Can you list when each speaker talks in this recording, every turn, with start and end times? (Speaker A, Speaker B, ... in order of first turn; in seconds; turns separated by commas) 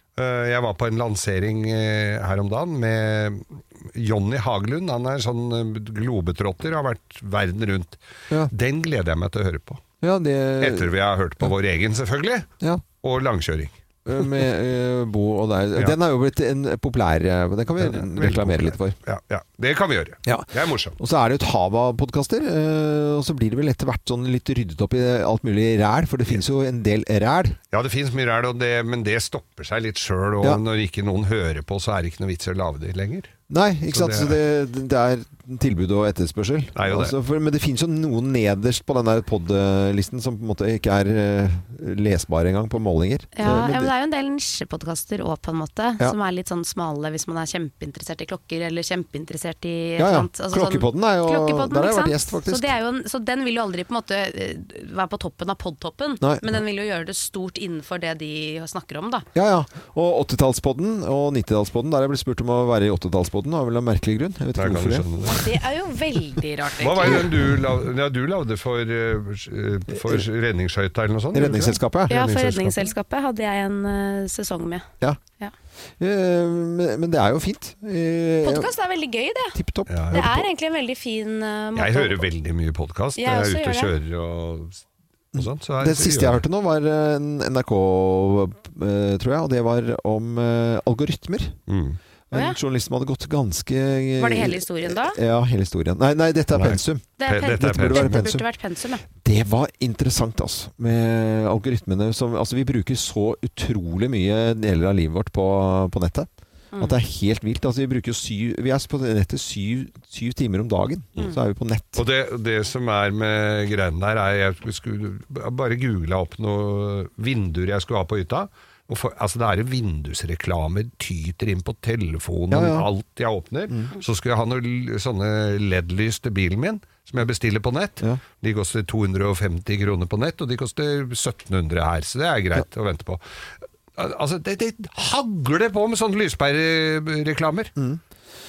Speaker A: 0.2-9.8, Speaker B: 10.0-10.9, Speaker A: 10.6-12.5, Speaker A: 13.0-13.8, Speaker B: 14.1-18.9, Speaker A: 17.8-20.9, Speaker B: 20.2-27.6, Speaker A: 27.7-33.3, Speaker B: 33.5-43.9, Speaker A: 33.9-34.4, Speaker A: 36.8-37.1, Speaker C: 43.4-59.3, Speaker B: 50.0-52.7, Speaker B: 59.3-65.1, Speaker A: 64.6-65.4, Speaker C: 65.2-67.3, Speaker A: 66.8-71.8, Speaker B: 67.0-67.3, Speaker B: 69.9-70.2, Speaker B: 71.3-72.6, Speaker C: 72.1-74.8, Speaker A: 72.4-72.7, Speaker B: 76.0-78.7, Speaker C: 78.4-79.5, Speaker B: 79.5-80.5, Speaker A: 79.9-80.2, Speaker C: 80.1-82.2, Speaker A: 81.7-84.8, Speaker C: 83.2-83.9, Speaker A: 85.3-86.4, Speaker B: 85.3-91.5, Speaker A: 91.7-92.0, Speaker B: 92.3-98.4, Speaker C: 94.2-95.2, Speaker A: 96.5-98.2, Speaker C: 97.2-99.0, Speaker B: 99.2-112.0, Speaker A: 112.0-133.2, Speaker B: 122.5-122.9, Speaker A: 133.9-137.7, Speaker B: 137.8-138.0